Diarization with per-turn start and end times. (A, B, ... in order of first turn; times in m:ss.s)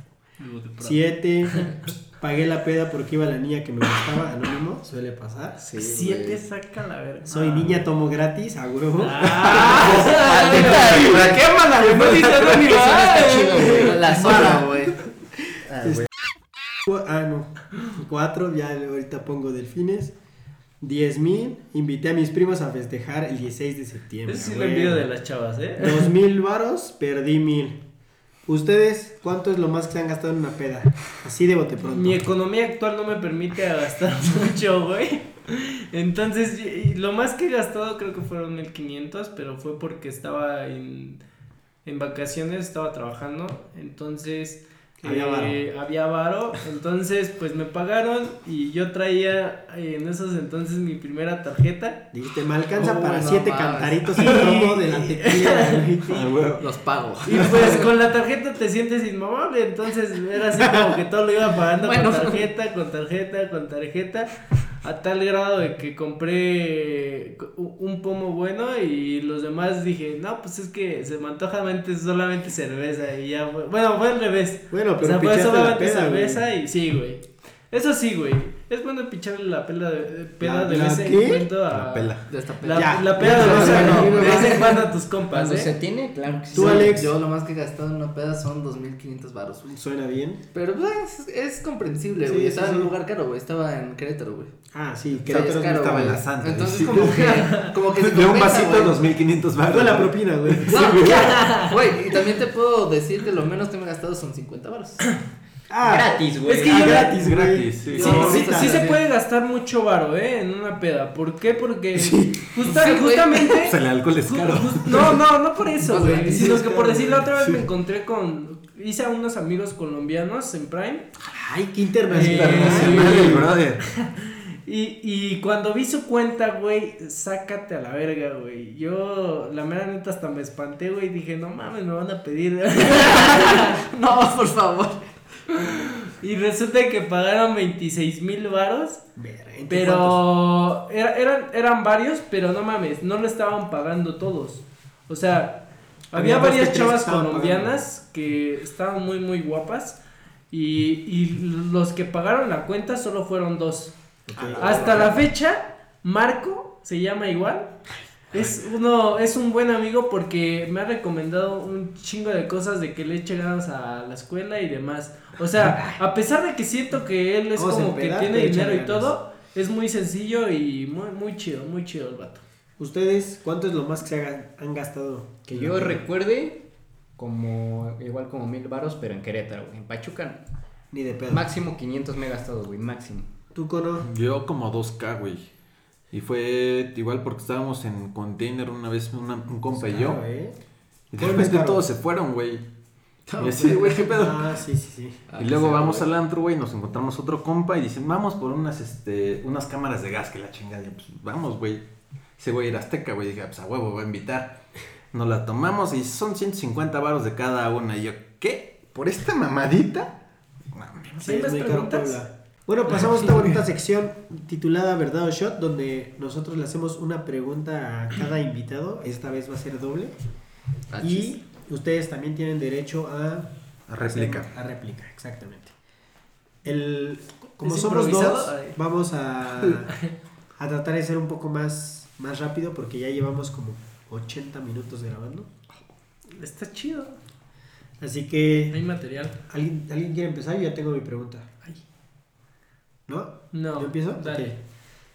0:00.4-0:01.8 A
0:00.8-0:05.6 B
0:05.6-0:06.4 C
0:05.8-0:07.8 A
0:07.3-0:10.0 B
0:09.0-0:13.9 A
0:09.4-0:12.8 D
0:10.6-0:11.0 C
0:12.8-0:14.4 E
0:13.4-0:15.0 C
0:14.1-0:14.6 D
0:15.7-0:16.0 D
0:15.8-0:16.0 B
0:16.8-0:20.1 B
0:20.8-0:25.1 B
0:24.3-0:26.1 A
0:25.8-0:27.8 B
0:28.5-0:32.2 B
0:31.9-0:41.2 A
0:41.8-0:52.0 A
0:45.0-0:45.6 B
0:52.1-0:56.3 B
0:52.7-0:54.1 C
0:54.2-0:56.2 A
0:56.1-0:56.7 D
0:56.6-0:57.9 C
0:57.2-1:04.3 A
1:01.8-1:02.4 C
1:04.8-1:25.7 A
1:14.7-1:16.4 B
1:20.4-1:21.5 B
1:21.7-1:22.3 D
1:22.3-1:24.8 C
1:22.7-1:24.8 B
1:23.6-1:24.1 D
1:25.3-1:27.0 E
1:26.5-1:27.1 B
1:26.5-1:29.7 C
1:29.6-1:30.4 B
1:30.5-1:34.5 C
1:32.2-1:32.9 B
1:34.7-1:36.2 B
1:35.2-1:39.0 C
1:35.8-1:41.4 D
1:37.0-1:37.7 A
1:39.7-1:40.9 B
1:40.7-1:45.1 C
1:41.0-1:41.8 A
1:45.7-1:48.8 B
1:45.8-1:47.1 E
1:46.4-1:47.2 A
1:47.1-1:48.4 D
1:47.9-1:49.0 C
1:48.0-2:01.1 A
1:52.0-1:52.4 D
1:52.6-1:53.5 C
1:53.6-1:55.2 D
1:55.8-1:57.0 C
1:56.0-1:57.2 B
1:57.4-1:57.6 D
2:01.4-2:03.5 B
2:02.1-2:03.8 D
2:02.1-2:13.8 A
2:13.0-2:15.0 C
2:15.6-2:19.0 A
2:19.2-2:20.3 B
2:19.7-2:30.0 A
2:26.1-2:27.7 B
2:30.5-2:34.0 A
2:34.3-2:35.2 B
2:34.4-2:35.1 C
2:34.6-2:37.8 A
2:38.3-2:52.4 A
2:45.7-2:46.0 B
2:47.6-2:49.1 B
2:52.8-2:56.0 B
2:55.5-2:56.6 E
2:57.2-3:00.4 E
3:00.9-3:01.5 B
3:01.3-3:03.3 E
3:03.5-3:04.1 B
3:04.0-3:05.5 D
3:06.1-3:10.2 D
3:09.8-3:10.6 B
3:11.1-3:12.6 D
3:11.2-3:11.8 B
3:13.4-3:14.0 A
3:13.4-3:14.4 D
3:14.1-3:15.3 B
3:15.3-3:16.1 C
3:15.4-3:21.8 D
3:22.4-3:24.6 D
3:25.1-3:30.1 D
3:30.7-3:31.4 D
3:31.2-3:32.2 A
3:31.2-3:40.2 B
3:32.9-3:33.3 A
3:40.9-3:41.4 C
3:41.0-3:45.7 B
3:43.9-3:44.5 D
3:46.6-3:49.9 B
3:47.6-3:48.8 A
3:49.7-3:50.1 A
3:50.6-3:55.5 B
3:56.4-3:57.2 A
3:58.0-3:58.8 B
3:58.7-3:59.4 A
3:59.5-4:01.5 B
4:03.1-4:04.6 B
4:03.5-4:04.5 A